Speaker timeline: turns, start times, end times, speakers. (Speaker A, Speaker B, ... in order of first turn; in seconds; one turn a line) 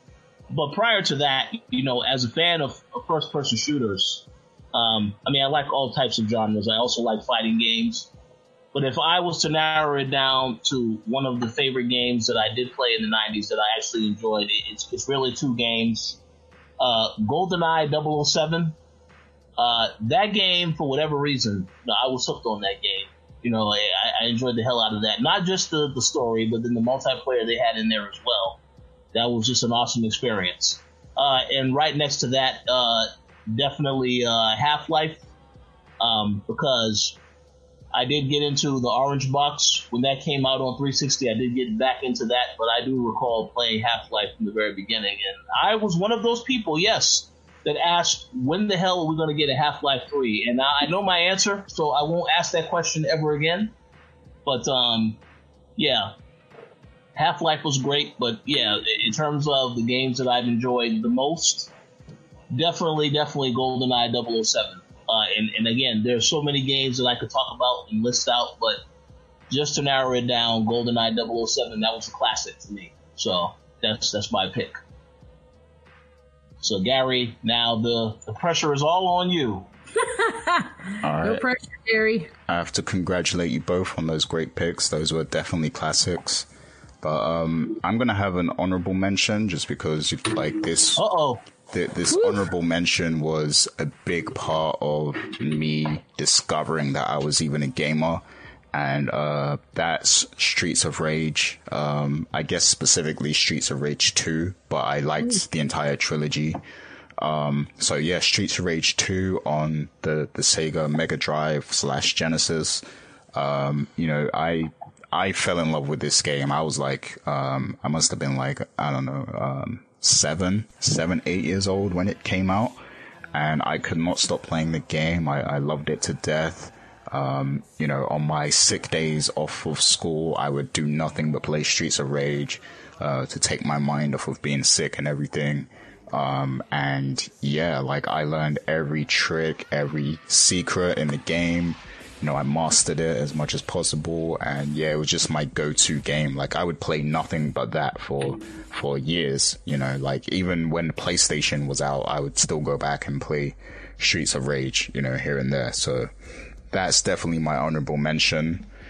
Speaker A: 0.5-8.1
Speaker A: 8.7-16.2
Speaker A: 16.8-18.8
Speaker A: 19.6-28.6
Speaker A: 29.1-35.2
Speaker A: 36.0-37.2
Speaker A: 37.9-53.7
Speaker A: 54.5-55.2
Speaker A: 55.8-56.1
Speaker A: 57.1-61.7
Speaker A: 62.5-68.8
Speaker A: 69.5-74.8
Speaker A: 76.6-79.7
Speaker B: 80.0-82.3
Speaker C: 81.0-81.5
Speaker C: 82.5-86.5
Speaker C: 87.0-91.0
Speaker A: 91.0-91.4
Speaker C: 91.7-106.6
Speaker B: 92.1-92.4
Speaker C: 107.2-112.8
Speaker C: 113.3-122.8
Speaker C: 123.3-156.1
Speaker C: 156.7-158.7